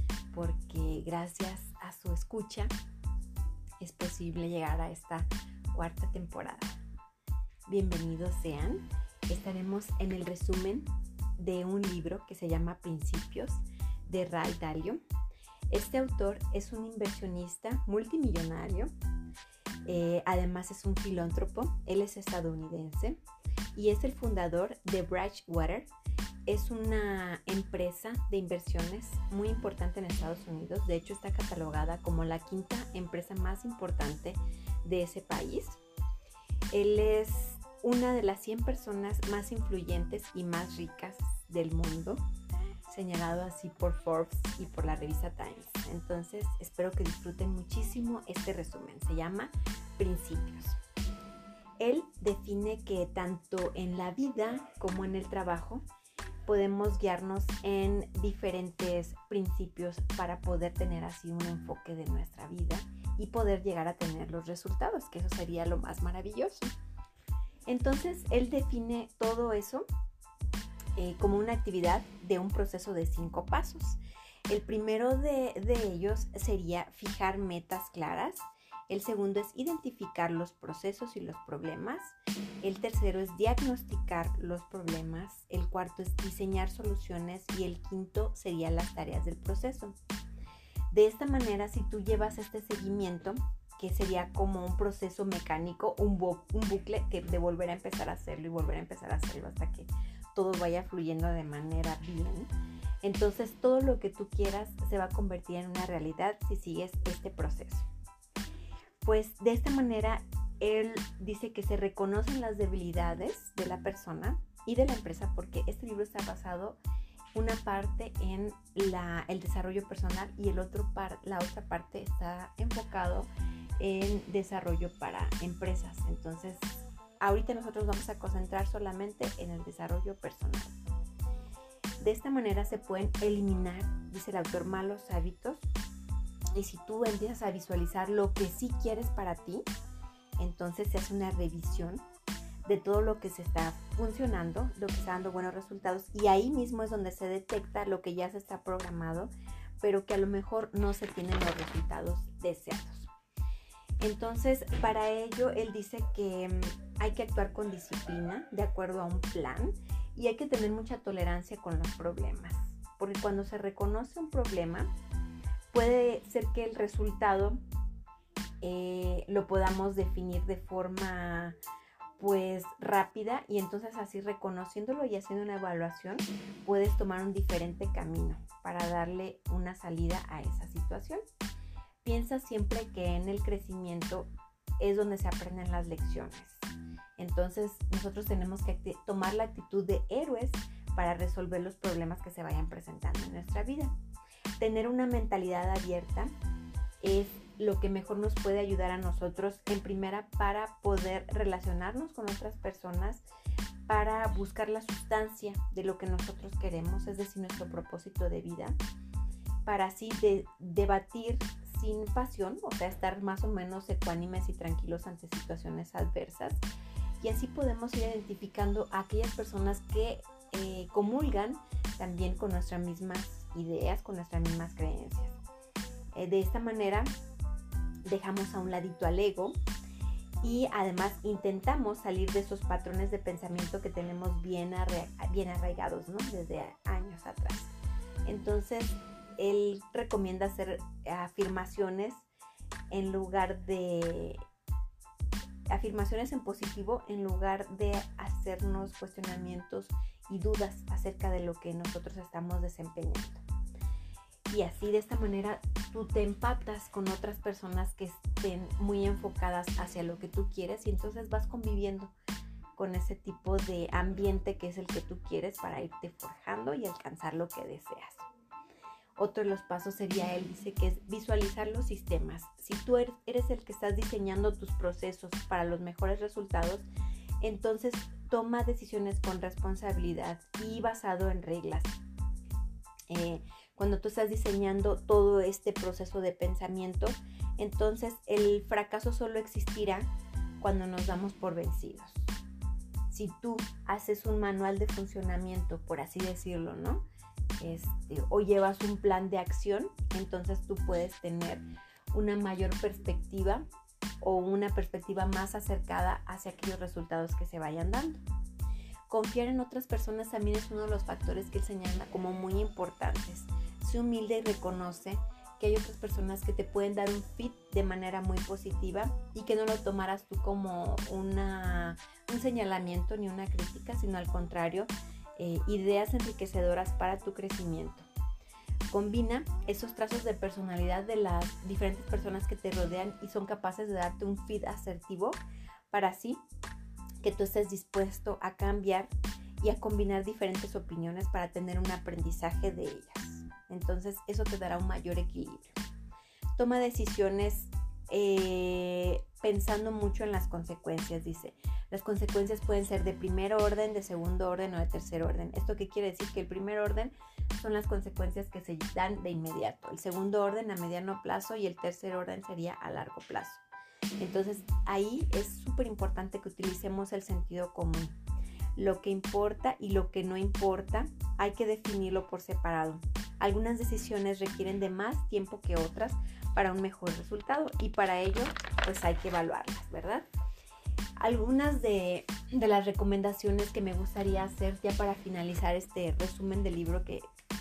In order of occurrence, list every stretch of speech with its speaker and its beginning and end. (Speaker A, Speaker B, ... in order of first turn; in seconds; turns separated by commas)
Speaker A: 0.3-2.7, Speaker A: 3.8-6.8, Speaker A: 7.7-15.0, Speaker A: 15.7-18.9, Speaker A: 19.9-23.2, Speaker A: 23.7-25.9, Speaker A: 26.5-35.8, Speaker A: 36.7-42.2, Speaker A: 42.9-50.8, Speaker A: 51.8-55.8, Speaker A: 56.5-66.7, Speaker A: 67.7-69.8, Speaker A: 71.0-90.0, Speaker A: 90.9-102.5, Speaker A: 103.0-107.9, Speaker A: 109.0-116.8, Speaker A: 117.3-130.8, Speaker A: 132.0-135.6, Speaker A: 136.5-139.6, Speaker A: 140.4-142.0, Speaker A: 142.6-153.1, Speaker A: 154.0-164.9, Speaker A: 165.7-167.6, Speaker A: 168.6-171.6, Speaker A: 172.2-181.2, Speaker A: 182.0-186.7, Speaker A: 187.2-193.9, Speaker A: 194.6-196.3, Speaker A: 197.0-203.2, Speaker A: 203.9-208.7, Speaker A: 209.6-216.6, Speaker A: 217.2-225.4, Speaker A: 226.1-227.1, Speaker A: 228.1-229.6, Speaker A: 230.4-237.7, Speaker A: 238.2-242.3, Speaker A: 242.9-244.4, Speaker A: 245.7-253.4, Speaker A: 254.5-262.1, Speaker A: 262.8-268.3, Speaker A: 269.2-276.9, Speaker A: 277.4-282.0, Speaker A: 283.1-292.3, Speaker A: 293.1-297.0, Speaker A: 297.6-303.6, Speaker A: 304.2-308.2, Speaker A: 309.1-328.1, Speaker A: 328.9-335.4, Speaker A: 335.9-336.4, Speaker A: 337.2-345.8, Speaker A: 346.6-363.6, Speaker A: 364.2-368.2, Speaker A: 368.8-380.2, Speaker A: 381.2-387.2